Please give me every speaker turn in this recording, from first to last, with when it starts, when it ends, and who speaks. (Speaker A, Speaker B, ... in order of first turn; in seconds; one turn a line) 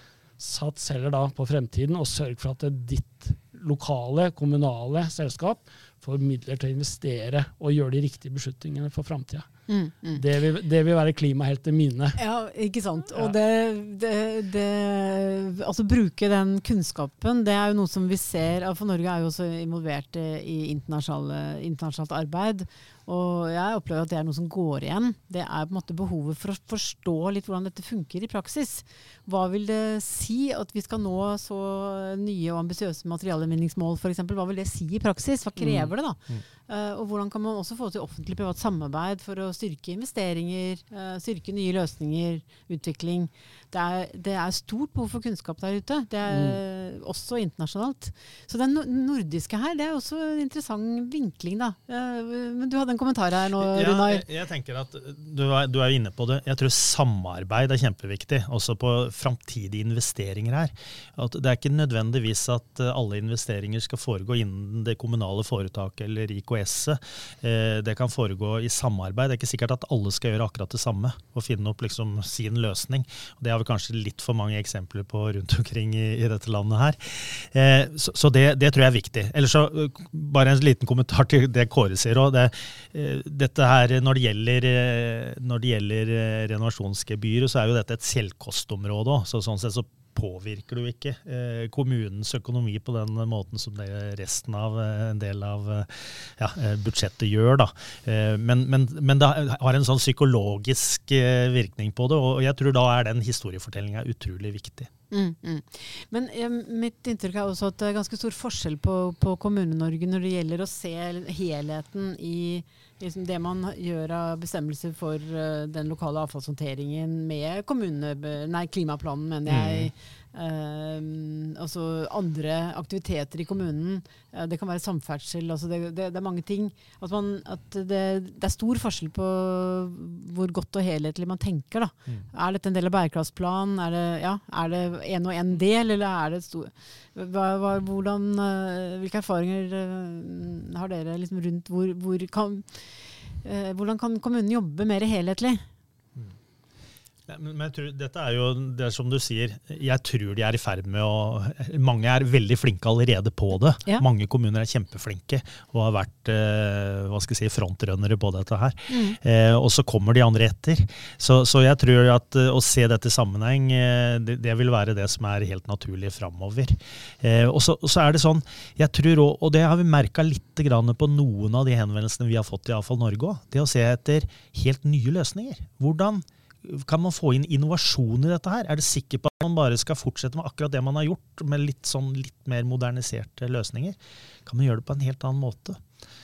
Speaker A: 0.4-9.5
Speaker B: 9.7-10.2
Speaker A: 10.2-12.2
Speaker B: 12.2-54.2
Speaker A: 46.3-46.6
Speaker C: 53.6-104.9
Speaker B: 105.1-142.8
Speaker C: 119.5-119.9
Speaker B: 143.4-145.7
Speaker C: 147.3-185.8
Speaker B: 158.9-159.2